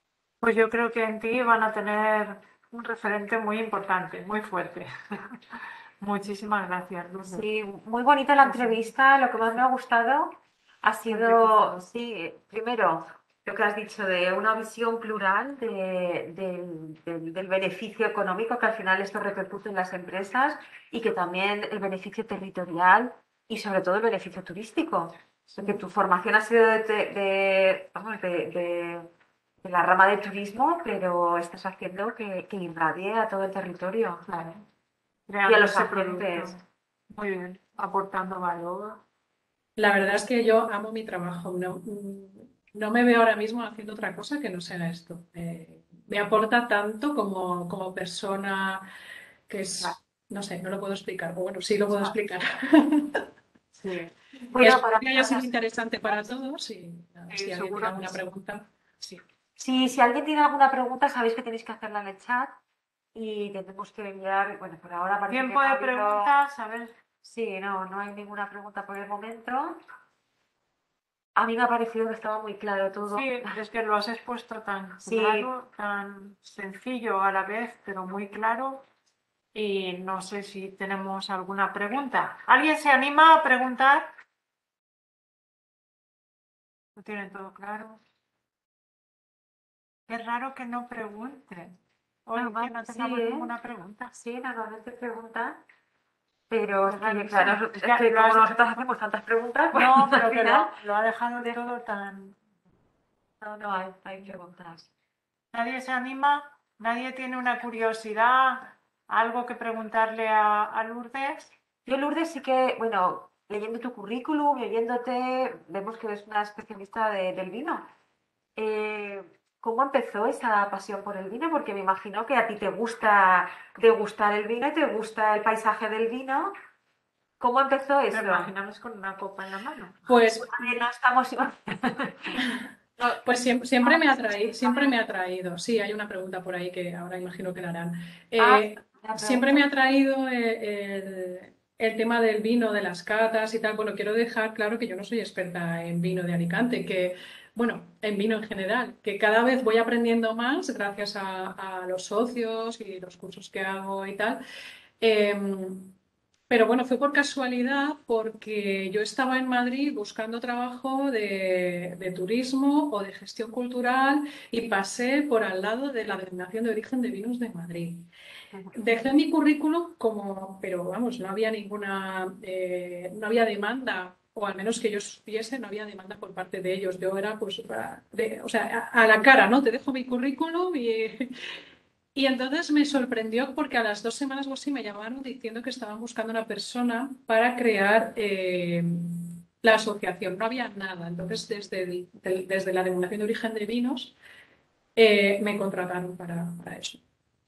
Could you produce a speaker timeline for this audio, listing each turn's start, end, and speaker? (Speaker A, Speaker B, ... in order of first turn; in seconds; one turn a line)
Speaker A: 0.4-7.4
Speaker B: 7.3-29.1
Speaker A: 8.4-8.8
Speaker A: 11.1-11.8
Speaker A: 25.5-25.8
Speaker B: 29.6-34.2
Speaker A: 34.3-34.6
Speaker A: 35.3-36.6
Speaker B: 35.5-36.6
Speaker A: 37.1-39.0
Speaker C: 39.8-48.9
Speaker C: 49.5-53.2
Speaker A: 53.8-54.1
Speaker B: 54.5-55.5
Speaker C: 54.6-59.2
Speaker A: 57.3-58.2
Speaker B: 59.6-62.6
Speaker B: 63.1-66.3
Speaker A: 65.3-67.0
Speaker B: 67.2-69.8
Speaker B: 71.4-73.5
Speaker A: 73.1-78.9
Speaker B: 75.0-75.5
Speaker A: 79.5-84.1
Speaker A: 87.0-88.0
Speaker A: 90.1-94.2
Speaker B: 92.3-93.5
Speaker B: 94.1-95.6
Speaker B: 96.5-100.7
Speaker A: 96.9-98.8
Speaker A: 99.7-102.4
Speaker B: 103.4-104.9
Speaker A: 105.5-111.5
Speaker B: 111.9-117.9
Speaker B: 118.6-126.5
Speaker B: 127.4-128.5
Speaker A: 128.1-130.1
Speaker C: 130.1-130.7
Speaker B: 130.4-132.4
Speaker C: 133.2-154.4
Speaker B: 133.8-134.9
Speaker B: 138.4-139.7
Speaker C: 155.0-155.9
Speaker C: 156.5-168.1
Speaker C: 168.7-181.3
Speaker C: 182.2-194.2
Speaker C: 195.0-197.0